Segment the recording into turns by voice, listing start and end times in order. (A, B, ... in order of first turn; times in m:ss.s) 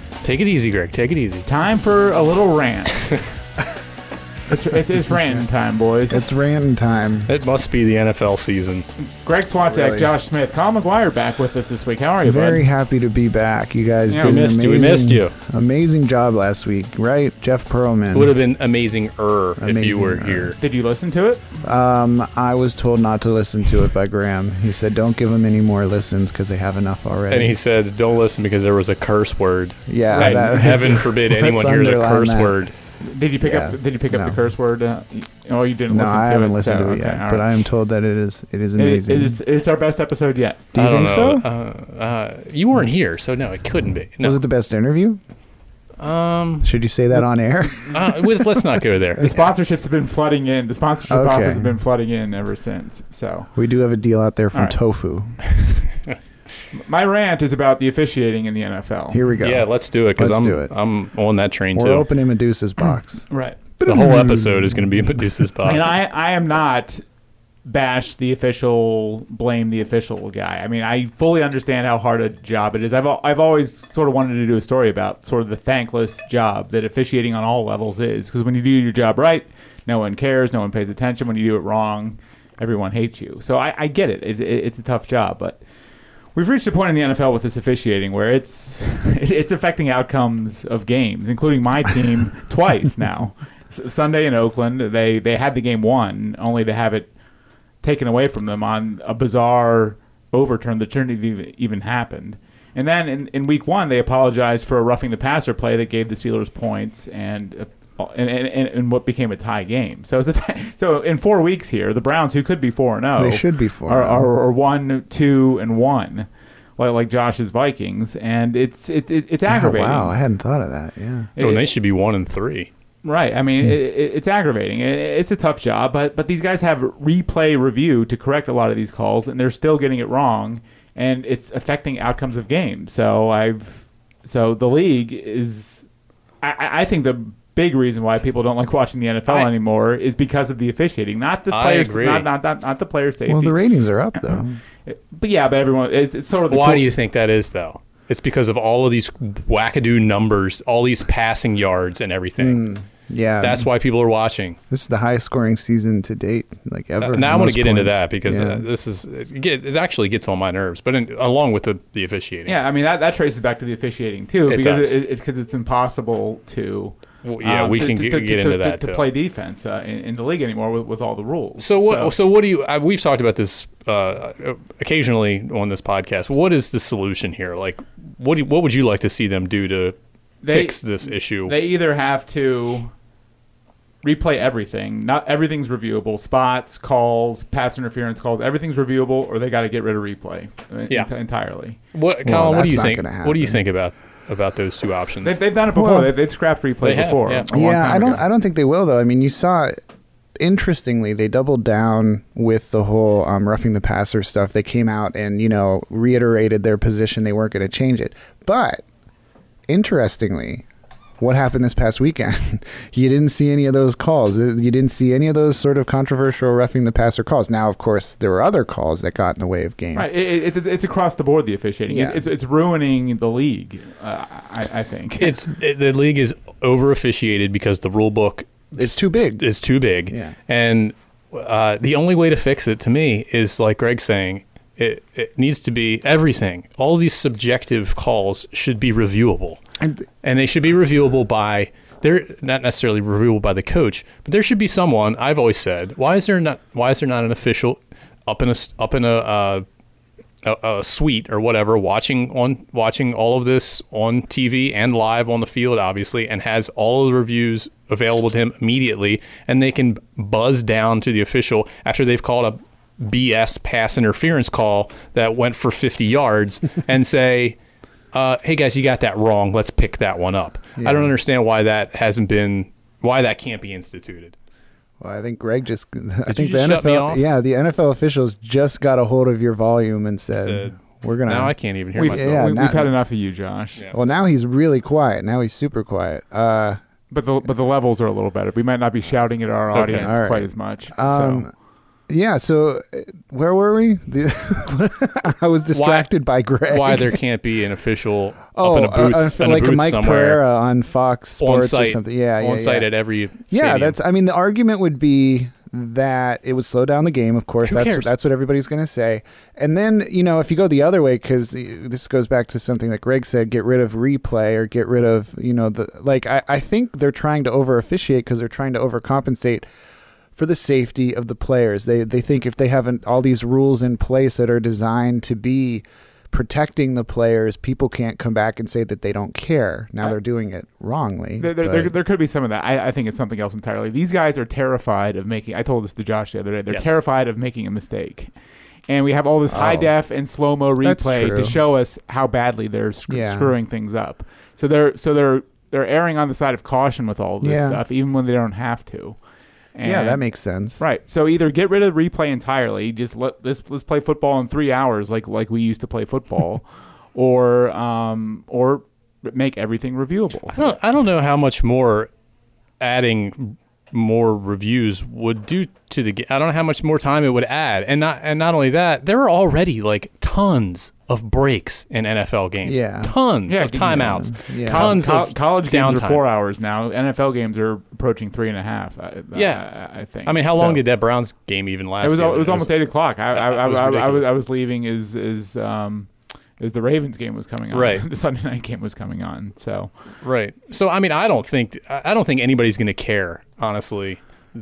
0:00.2-0:01.5 A
0:01.5-0:03.2 B
0:04.5-0:06.2 B
0:06.1-0:07.3 C
0:07.3-0:08.8 A
0:09.0-0:12.6 B
0:09.7-0:10.1 C
0:12.2-0:18.3 C
0:14.1-0:14.4 B
0:14.2-0:15.4 A
0:18.1-0:20.6 A
0:19.6-0:20.6 C
0:20.6-0:21.6 B
0:21.6-0:27.6 C
0:27.3-0:32.7 A
0:29.9-0:32.6 C
0:30.2-0:30.8 B
0:33.0-0:37.5 B
0:33.4-0:34.4 C
0:35.9-0:39.4 C
0:38.8-0:40.7 B
0:40.7-0:41.4 C
0:40.8-0:44.4 A
0:44.2-0:45.2 C
0:46.0-0:46.7 A
0:46.6-0:49.5 C
0:47.9-0:49.3 A
0:49.2-0:53.5 B
0:51.1-0:51.8 C
0:53.6-0:55.4 C
0:56.7-0:59.2 B
0:59.1-1:00.7 C
0:59.4-1:02.1 A
1:01.8-1:03.3 C
1:03.3-1:04.3 B
1:03.8-1:05.3 C
1:03.8-1:05.8 A
1:05.6-1:07.0 B
1:07.7-1:25.6 B
1:26.4-1:37.1 B
1:37.8-1:56.3 B
1:53.2-1:54.3 C
1:56.8-2:00.2 B
1:59.5-2:01.3 C
2:01.4-2:01.7 B
2:01.4-2:02.7 A
2:03.0-2:15.8 B
2:16.4-2:23.6 B
2:21.5-2:22.3 A
2:23.3-2:24.6 C
2:24.2-2:26.9 B
2:26.5-2:32.6 A
2:32.4-2:33.7 C
2:33.4-2:34.6 A
2:34.7-2:38.6 C
2:37.0-2:42.6 A
2:42.5-2:52.2 B
2:44.5-2:45.0 A
2:47.2-2:49.1 A
2:51.6-3:00.0 A
3:00.4-3:02.9 B
3:00.5-3:01.6 A
3:04.0-3:11.8 B
3:11.9-3:15.4 A
3:12.2-3:13.6 C
3:15.2-3:18.2 B
3:15.7-3:16.1 C
3:16.8-3:17.5 A
3:17.5-3:19.8 C
3:20.4-3:28.8 C
3:29.7-3:30.7 C
3:31.2-3:40.1 C
3:40.0-3:45.4 B
3:41.9-3:42.2 C
3:45.2-3:59.6 A
3:48.7-3:49.4 C
3:50.1-3:50.4 C
4:00.2-4:09.6 A
4:10.4-4:27.6 A
4:28.1-4:34.4 A
4:30.8-4:31.1 C
4:35.0-4:41.5 C
4:36.3-4:37.2 A
4:40.3-4:42.5 A
4:42.0-4:43.8 B
4:42.1-4:42.9 C
4:43.8-4:44.1 A
4:43.9-4:46.8 C
4:47.1-4:51.5 B
4:49.8-4:50.0 A
4:49.8-4:51.5 C
4:52.1-4:57.2 C
4:55.7-4:56.1 A
4:56.7-5:00.4 A
4:58.6-5:02.9 C
5:01.4-5:04.0 A
5:03.5-5:19.6 C
5:07.6-5:08.1 A
5:20.4-5:31.9 C
5:31.4-5:38.3 B
5:36.7-5:37.0 A
5:38.9-5:49.2 B
5:39.5-5:39.9 C
5:40.8-5:41.6 C
5:43.1-5:43.5 C
5:47.4-5:47.8 C
5:49.8-5:50.2 B
5:49.8-5:50.8 C
5:50.8-6:00.7 B
6:00.5-6:02.1 A
6:02.8-6:16.2 A
6:12.6-6:13.1 C
6:13.5-6:20.8 B
6:13.8-6:15.0 C
6:19.3-6:19.7 A
6:20.3-6:22.7 A
6:22.0-6:29.9 B
6:23.3-6:24.3 A
6:27.7-6:28.1 A
6:30.2-6:34.2 A